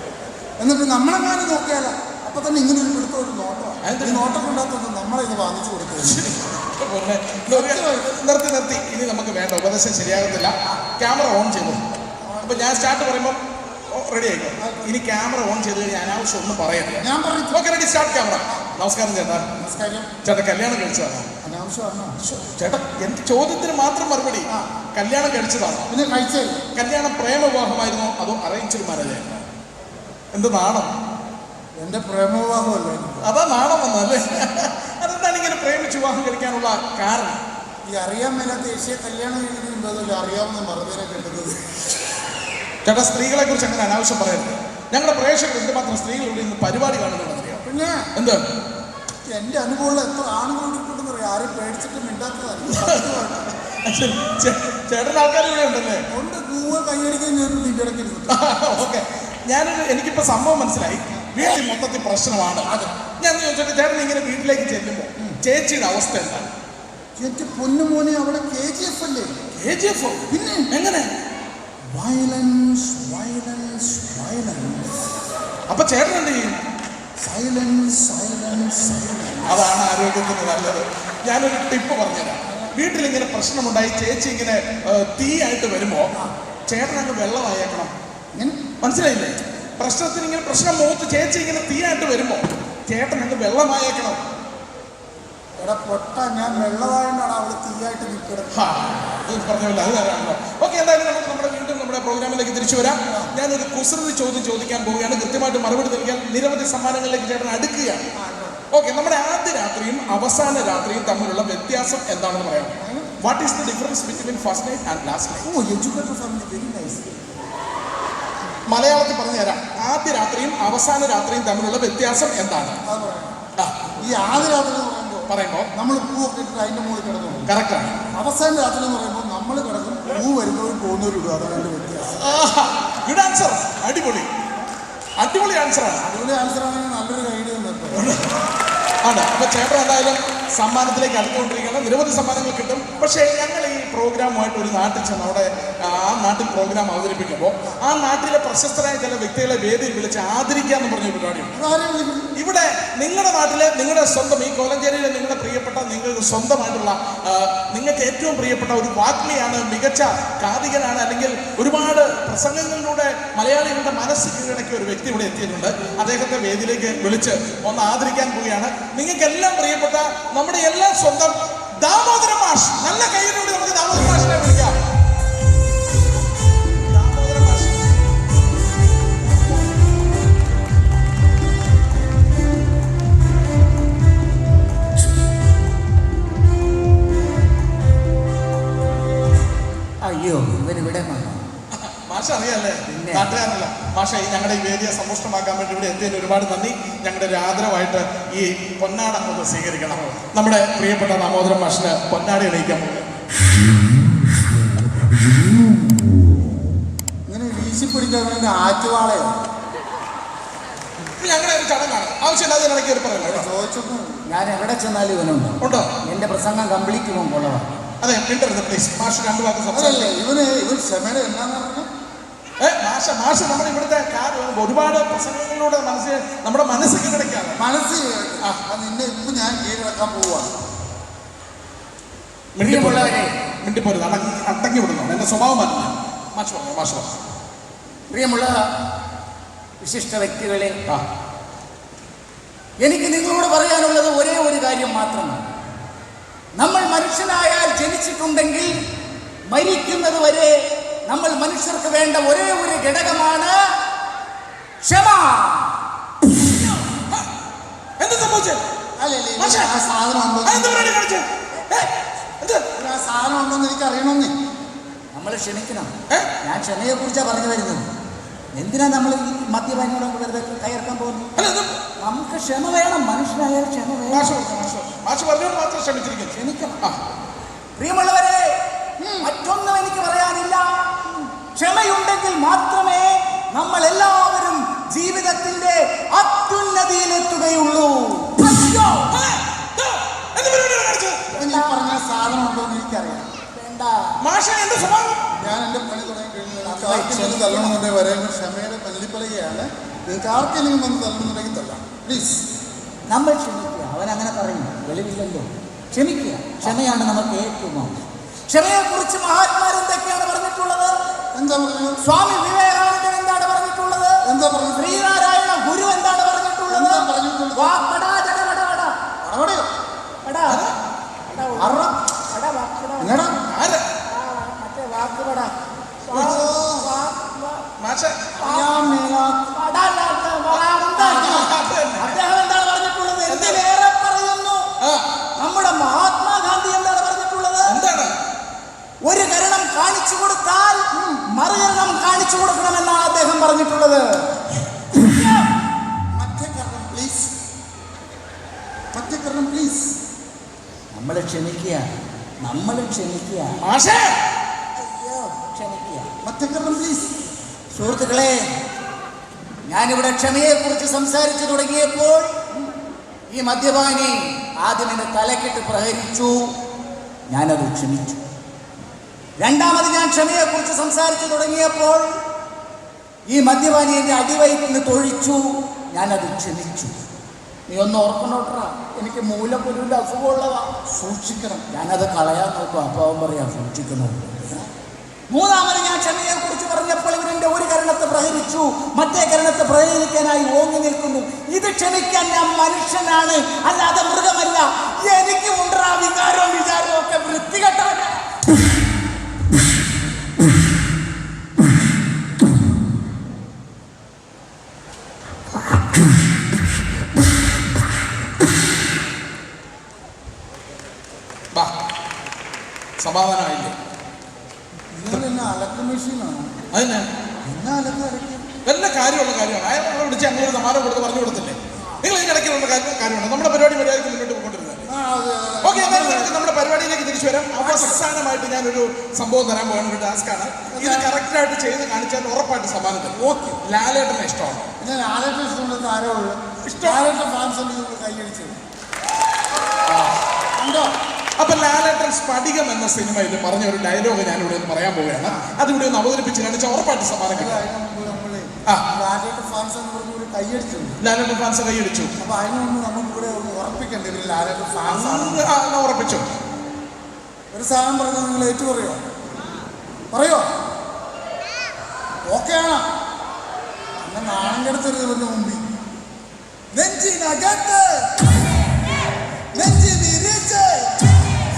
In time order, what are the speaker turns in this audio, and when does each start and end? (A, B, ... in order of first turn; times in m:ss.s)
0:00.6-0:06.2 A
0:03.8-0:04.3 B
0:06.0-0:11.8 B
0:07.5-0:08.2 A
0:12.2-0:12.9 A
0:12.4-0:13.4 B
0:13.9-0:19.5 B
0:14.6-0:14.9 A
0:17.0-0:17.6 A
0:19.6-0:20.1 A
0:20.2-0:21.3 B
0:21.4-0:22.2 A
0:22.2-0:25.9 B
0:25.9-0:26.6 A
0:26.7-0:29.4 B
0:30.3-0:30.9 B
0:31.8-0:33.3 A
0:33.2-0:37.4 B
0:37.9-0:41.6 A
0:42.8-0:47.6 B
0:47.6-0:48.1 A
0:48.1-0:48.4 B
0:49.2-0:53.5 A
0:52.7-0:56.0 B
0:56.1-0:58.4 A
0:58.3-1:06.5 B
1:02.6-1:02.9 A
1:07.2-1:09.3 A
1:09.6-1:11.1 B
1:10.3-1:10.7 A
1:11.9-1:15.1 A
1:15.7-1:16.5 B
1:17.2-1:19.6 A
1:19.4-1:26.1 B
1:22.4-1:22.7 A
1:26.7-1:27.9 B
1:28.3-1:28.6 A
1:28.8-1:34.2 B
1:35.6-1:38.7 A
1:38.5-1:48.1 B
1:48.2-1:48.6 A
1:48.7-1:55.5 B
1:52.8-1:53.2 A
1:55.4-1:57.2 A
1:58.7-2:02.8 B
2:02.8-2:03.3 A
2:04.0-2:07.5 A
2:05.3-2:05.7 B
2:07.4-2:08.0 B
2:08.1-2:12.2 A
2:12.0-2:14.3 B
2:15.2-2:16.1 B
2:16.0-2:18.1 A
2:17.9-2:18.3 B
2:19.0-2:31.5 B
2:31.5-2:32.3 A
2:32.4-2:54.8 B
2:56.9-2:57.9 B
3:10.0-3:11.4 C
3:11.7-3:23.1 B
3:12.9-3:13.3 C
3:19.9-3:20.2 A
3:27.3-3:29.4 A
3:31.2-3:33.5 B
3:33.2-3:34.2 A
3:34.3-3:37.8 C
3:35.6-3:35.9 B
3:38.0-3:40.1 B
3:39.7-3:41.9 A
3:42.6-3:47.6 B
3:47.6-3:50.5 A
3:52.6-3:57.1 B
3:52.6-3:53.3 C
3:58.1-3:58.7 C
3:59.8-4:00.8 C
4:02.8-4:05.4 C
4:06.6-4:08.7 C
4:09.5-4:13.6 C
4:14.8-4:15.7 C
4:18.0-4:18.6 B
4:19.0-4:21.0 A
4:19.4-4:19.7 B
4:20.4-4:21.9 B
4:22.8-4:24.3 A
4:25.1-4:27.8 C
4:28.5-4:31.3 C
4:31.4-4:31.8 B
4:32.0-4:34.4 C
4:34.1-4:37.0 B
4:36.3-4:36.8 C
4:37.8-4:38.6 C
4:39.0-4:39.3 A
4:39.2-4:49.1 C
4:49.1-4:51.2 B
4:51.3-4:53.3 A
4:51.4-4:51.8 C
4:53.5-4:54.2 C
4:54.2-4:55.2 B
4:55.4-5:02.4 A
4:56.6-4:57.8 C
5:03.1-5:11.0 C
5:06.6-5:06.9 A
5:11.3-5:12.0 A
5:12.0-5:14.2 C
5:14.2-5:15.1 A
5:14.8-5:18.9 C
5:16.7-5:17.8 A
5:19.2-5:19.7 A
5:20.2-5:20.6 C
5:20.5-5:20.7 B
5:21.3-5:23.4 C
5:21.6-5:21.9 A
5:23.0-5:23.4 A
5:23.5-5:23.8 B
5:24.1-5:25.5 C
5:26.0-5:27.6 C
5:26.1-5:26.4 B
5:26.1-5:27.0 A
5:27.8-5:28.3 B
5:28.4-5:29.5 A
5:28.4-5:28.8 C
5:29.5-5:34.7 C
5:30.5-5:32.2 B
5:31.0-5:31.5 A
5:33.3-5:33.6 B
5:34.8-5:35.0 B
5:35.4-5:37.8 C
5:37.7-5:38.1 B
5:39.0-5:44.3 C
5:41.0-5:41.2 A
5:44.9-5:45.5 C
5:46.1-5:47.3 A
5:48.9-5:49.9 A
5:50.9-5:51.9 C
5:52.4-5:53.6 C
5:53.6-5:54.2 B
5:54.8-5:56.1 C
5:56.2-5:57.2 A
5:57.7-5:58.5 C
5:59.7-6:02.4 C
6:03.3-6:06.5 C
6:07.3-6:08.2 C
6:09.4-6:12.1 C
6:13.3-6:16.9 C
6:17.7-6:20.8 C
6:20.9-6:21.6 A
6:21.7-6:24.4 C
6:25.3-6:38.2 C
6:53.0-6:53.7 B
6:54.9-6:56.5 A
6:56.7-6:57.0 B
6:57.4-6:58.5 A
6:58.6-7:04.9 B
7:01.8-7:02.1 A
7:04.9-7:06.3 A
7:05.6-7:14.7 B
7:07.6-7:08.1 A
7:10.7-7:11.1 A
7:13.1-7:13.6 A
7:14.8-7:18.6 A
7:16.6-7:17.0 B
7:19.9-7:20.2 B
7:20.6-7:20.9 A
7:21.4-7:27.6 B
7:25.2-7:25.5 A
7:27.3-7:31.0 A
7:31.0-7:32.1 B
7:32.2-7:35.5 A
7:34.8-7:36.2 B
7:37.5-7:39.0 A
7:40.1-7:40.5 A
7:42.3-7:42.8 A
7:44.0-7:45.6 A
7:46.7-7:48.4 A
7:49.5-7:51.3 A